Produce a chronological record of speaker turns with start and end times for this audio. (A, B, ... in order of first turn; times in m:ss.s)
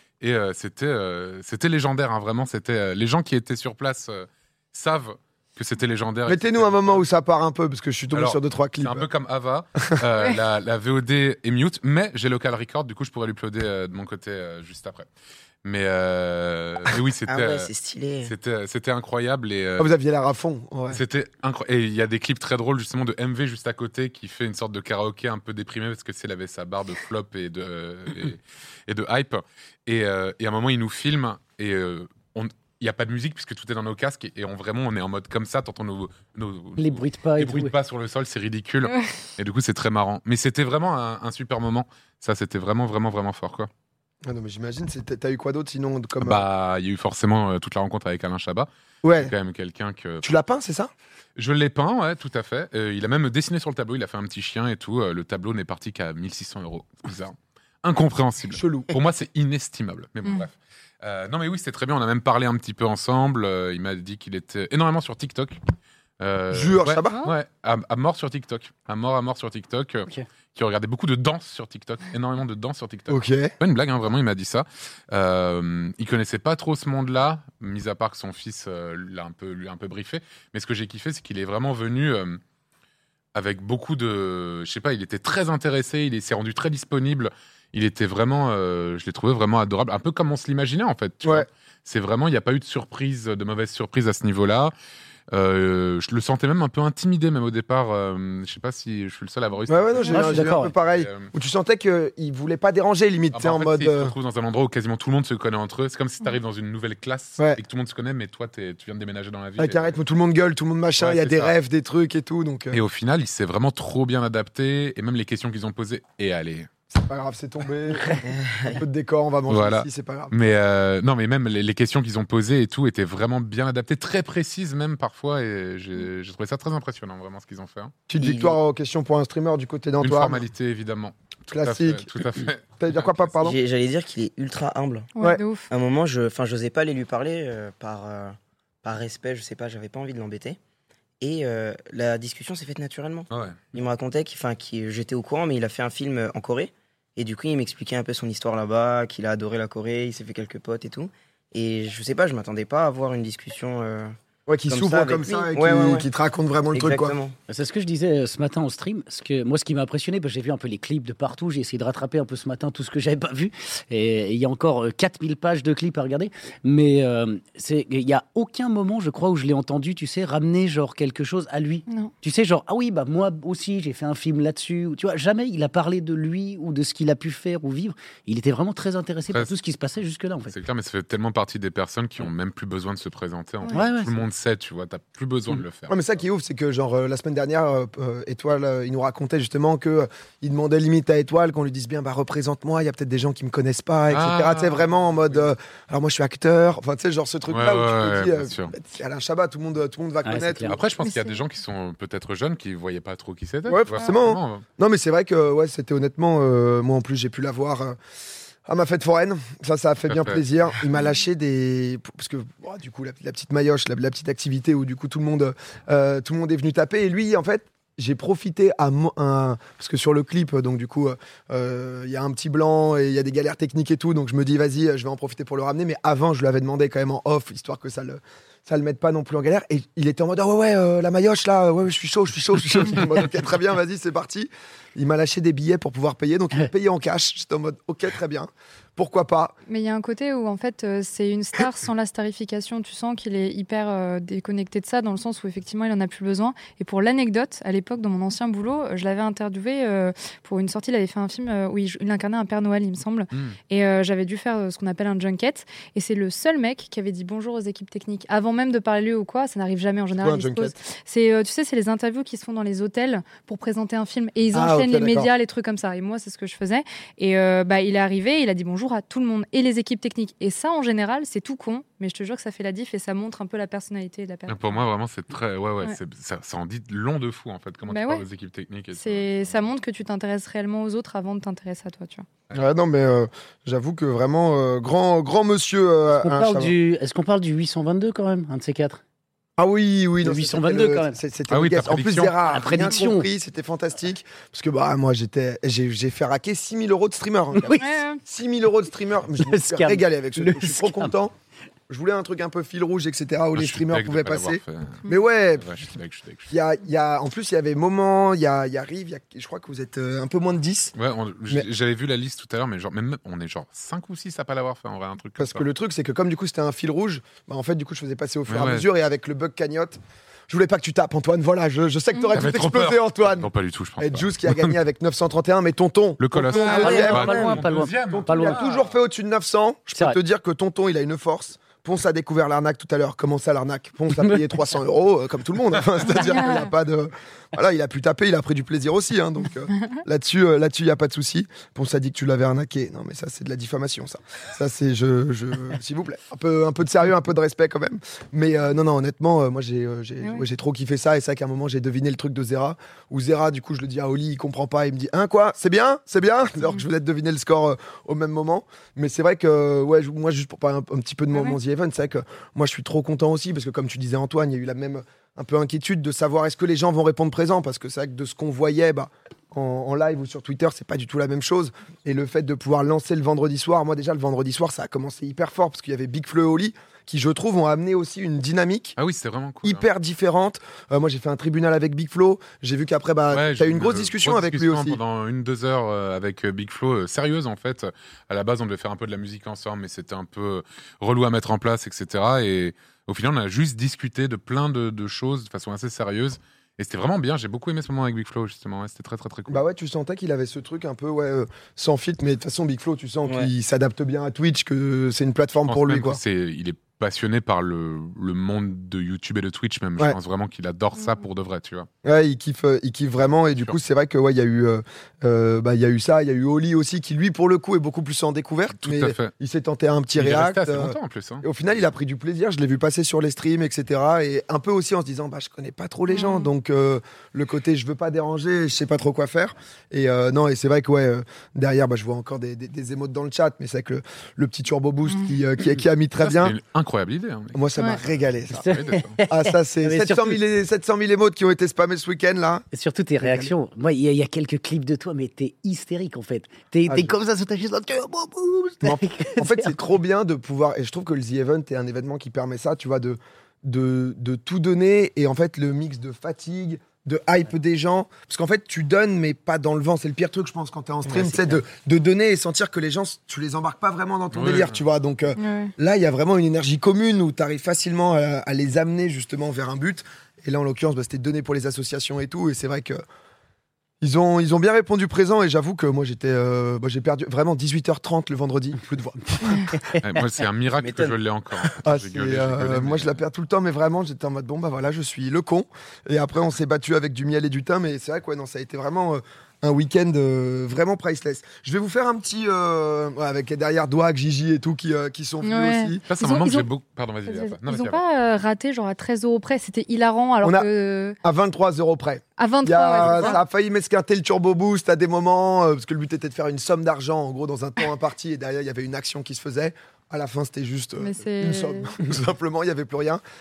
0:00.2-0:07.0 A
0:06.3-0:09.1 B
0:08.1-0:15.1 A
0:15.6-0:17.7 A
0:17.3-0:18.3 C
0:18.2-0:19.9 A
0:19.8-0:21.0 B
0:20.9-0:43.7 A
0:36.8-0:37.7 D
0:44.2-0:46.4 B
0:46.2-0:50.3 A
0:49.0-0:49.3 B
0:50.2-0:50.9 B
0:51.4-1:05.6 A
0:58.5-0:58.9 B
1:06.2-1:22.4 A
1:06.5-1:07.2 B
1:13.1-1:13.5 B
1:23.4-1:34.7 A
1:35.3-1:41.3 A
1:39.7-1:44.1 B
1:40.1-1:40.7 D
1:43.3-1:50.0 A
1:49.6-1:52.8 B
1:51.0-1:51.5 A
1:52.7-1:56.7 A
1:56.9-2:00.3 B
1:58.2-1:58.8 C
1:59.5-2:08.0 A
2:08.1-2:10.4 B
2:08.2-2:08.6 C
2:10.0-2:13.3 A
2:11.5-2:12.1 B
2:12.8-2:13.6 B
2:13.4-2:15.1 C
2:15.2-2:15.7 E
2:15.7-2:20.6 C
2:21.2-2:34.2 C
2:23.3-2:23.6 A
2:34.5-2:37.2 B
2:34.7-2:36.1 C
2:36.7-2:37.4 C
2:37.5-3:00.6 D
2:51.9-2:52.1 E
3:00.5-3:06.1 A
3:03.7-3:04.2 D
3:05.9-3:20.8 B
3:14.1-3:15.4 A
3:17.5-3:18.7 A
3:20.2-3:20.8 D
3:20.7-3:24.6 A
3:21.0-3:21.4 E
3:23.7-3:28.0 B
3:28.7-3:59.6 B
3:30.1-3:30.4 A
3:59.7-4:34.8 E
4:13.3-4:13.6 A
4:20.2-4:20.7 B
4:24.5-4:25.3 B
4:34.5-4:39.6 A
4:37.9-4:38.2 E
4:39.0-4:42.3 E
4:42.5-4:46.7 B
4:46.2-4:49.0 D
4:49.6-5:01.3 B
4:50.2-4:51.2 D
4:51.5-4:52.4 A
4:52.4-4:53.3 D
4:57.6-4:58.0 D
4:57.8-4:58.2 E
4:59.4-5:01.1 D
5:01.9-5:05.8 B
5:03.6-5:05.0 A
5:05.6-5:06.5 A
5:06.5-5:10.9 B
5:11.0-5:15.7 A
5:15.4-5:20.0 B
5:18.5-5:18.9 A
5:20.5-6:19.0 B
5:22.3-5:24.8 A
5:26.2-5:28.9 A
5:26.5-5:28.7 D
5:26.6-5:27.0 E
5:36.1-5:36.7 E
6:19.0-6:19.9 A
6:19.6-6:25.0 B
6:23.3-6:39.6 A
6:39.5-6:46.2 B
6:45.6-6:51.9 A
6:52.0-7:16.6 B
6:58.8-6:59.3 A
7:00.2-7:01.4 A
7:06.1-7:06.5 E
7:16.2-7:19.2 A
7:17.5-7:18.7 B
7:18.5-7:20.4 D
7:19.3-7:22.7 B
7:22.7-7:29.8 D
7:23.2-7:23.5 B
7:26.9-7:27.2 B
7:28.8-7:53.0 B
7:41.1-7:41.6 C
7:44.3-7:44.8 A
7:45.4-7:45.7 E
7:54.0-7:59.8 B
8:00.0-8:03.2 A
8:00.8-8:01.2 C
8:01.8-8:16.0 B
8:15.4-8:16.7 E
8:16.1-8:18.0 A
8:17.3-8:21.2 E
8:20.4-8:20.7 B
8:21.2-8:33.2 B
8:22.4-8:23.4 E
8:31.0-8:31.9 E